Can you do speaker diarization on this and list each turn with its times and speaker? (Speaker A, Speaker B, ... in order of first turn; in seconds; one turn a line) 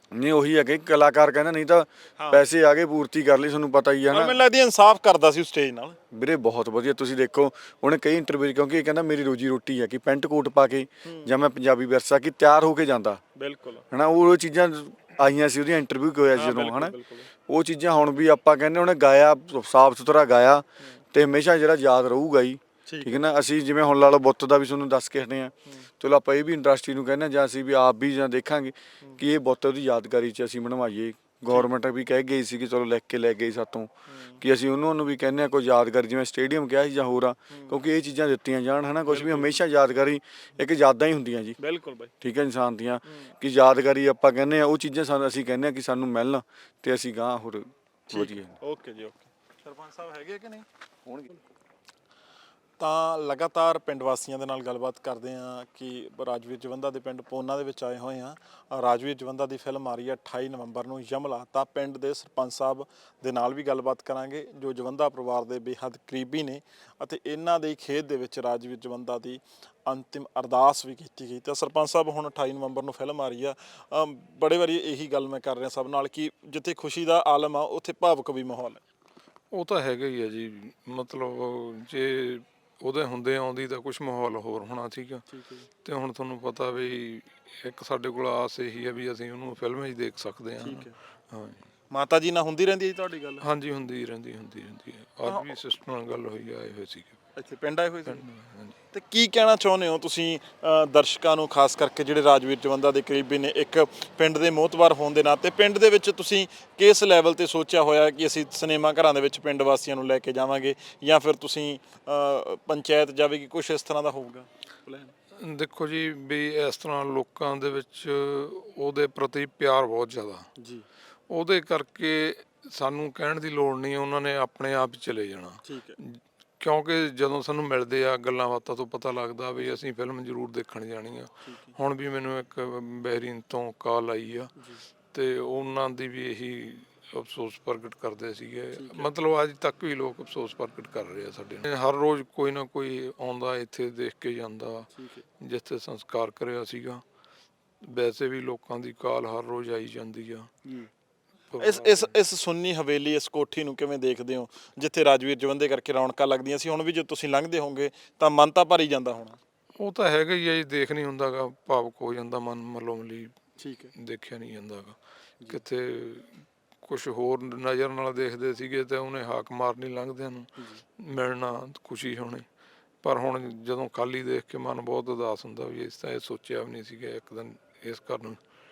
Speaker A: 0.1-4.4
Speaker B: 2.2-2.5
Speaker B: 4.1-6.0
Speaker A: 6.1-13.2
Speaker B: 11.0-11.3
Speaker B: 13.3-13.8
Speaker A: 13.9-16.9
Speaker B: 16.3-17.3
Speaker A: 17.5-33.9
Speaker B: 22.9-23.2
Speaker B: 34.1-34.4
Speaker A: 34.4-41.6
Speaker B: 37.5-37.8
Speaker B: 39.0-39.5
Speaker B: 41.6-42.1
Speaker A: 42.2-48.5
Speaker B: 43.0-43.3
Speaker B: 48.1-50.6
Speaker B: 52.8-78.8
Speaker C: 79.5-85.2
Speaker B: 85.3-85.7
Speaker C: 85.8-91.6
Speaker B: 90.6-90.9
Speaker B: 91.9-93.4
Speaker C: 93.4-97.2
Speaker B: 95.3-95.5
Speaker B: 97.3-98.2
Speaker C: 98.0-98.8
Speaker B: 98.9-115.1
Speaker C: 115.4-120.5
Speaker B: 120.6-120.8
Speaker C: 121.3-134.5
Speaker B: 125.6-126.0
Speaker B: 131.5-131.7
Speaker C: 135.1-147.0
Speaker B: 138.7-139.1
Speaker B: 144.9-145.2
Speaker C: 147.8-150.5
Speaker C: 151.5-152.1
Speaker B: 151.6-159.4
Speaker C: 159.8-163.3
Speaker B: 163.6-163.9
Speaker C: 163.9-166.3
Speaker C: 166.8-172.4
Speaker C: 173.0-178.4